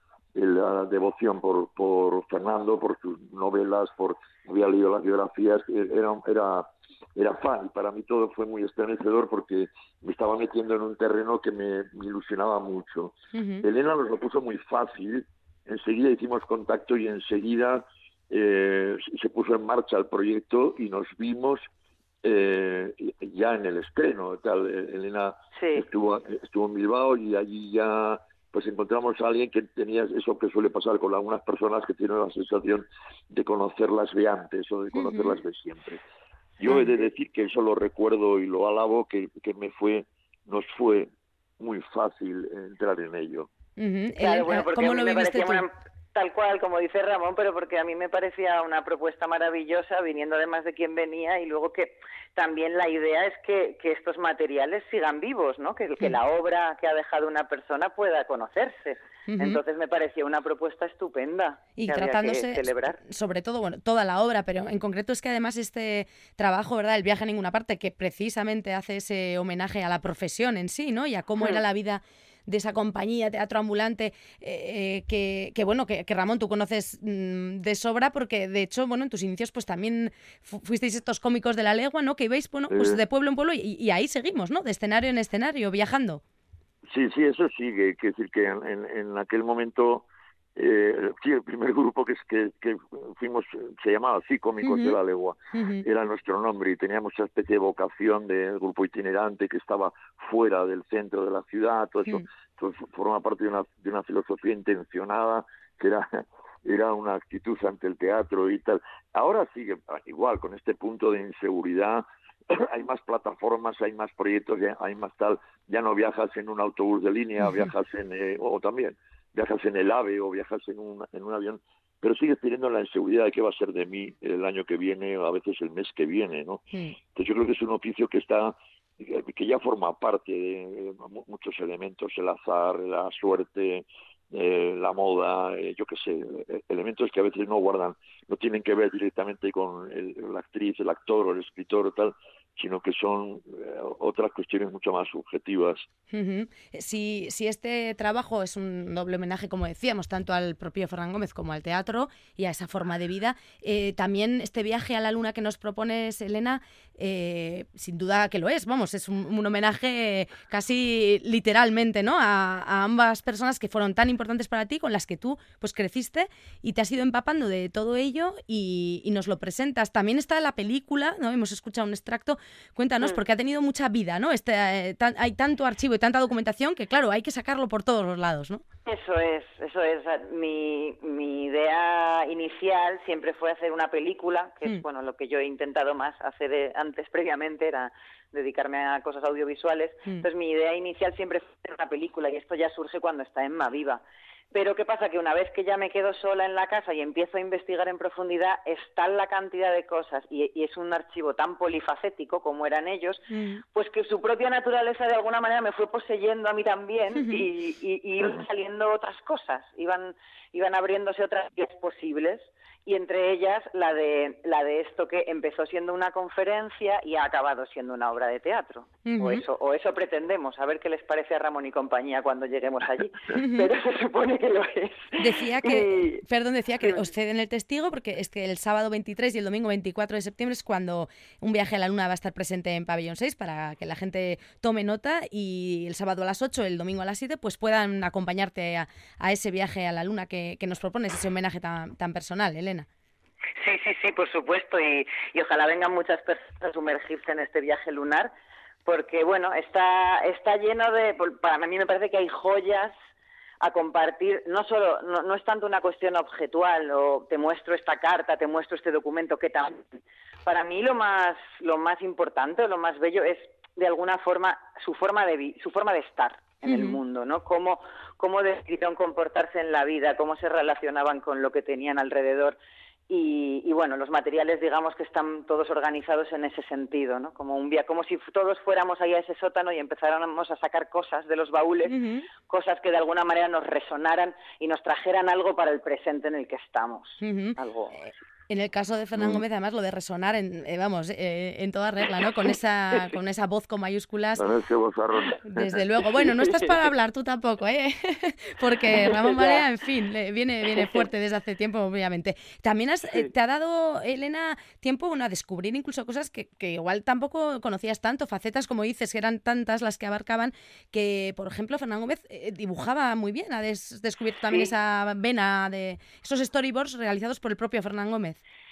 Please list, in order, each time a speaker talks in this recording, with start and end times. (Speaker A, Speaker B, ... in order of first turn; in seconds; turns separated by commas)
Speaker A: 0.3-21.6, Speaker B: 13.3-13.7, Speaker A: 22.2-36.0, Speaker C: 25.6-25.9, Speaker B: 34.9-35.4, Speaker A: 36.6-41.1, Speaker B: 36.7-36.9, Speaker A: 41.6-43.5, Speaker B: 43.8-45.7, Speaker C: 44.2-63.0, Speaker B: 59.3-59.6, Speaker B: 61.8-86.2, Speaker A: 82.7-83.0, Speaker A: 86.9-126.6, Speaker B: 94.6-95.0, Speaker B: 95.5-95.8, Speaker A: 127.2-145.9, Speaker B: 146.1-178.6, Speaker C: 178.9-194.0, Speaker C: 194.5-203.2, Speaker B: 203.3-203.6, Speaker C: 203.7-226.2, Speaker B: 207.2-207.4, Speaker B: 219.1-219.4, Speaker B: 223.3-223.7, Speaker B: 225.2-242.9, Speaker C: 243.6-248.3, Speaker C: 248.9-252.9, Speaker C: 253.6-259.9, Speaker C: 260.5-272.6, Speaker B: 266.6-267.0, Speaker C: 273.1-281.9, Speaker B: 281.9-282.3, Speaker C: 282.5-288.0, Speaker B: 287.2-294.5, Speaker A: 289.1-289.4, Speaker A: 294.4-295.7, Speaker B: 295.4-318.4, Speaker C: 299.0-299.6, Speaker C: 300.8-301.0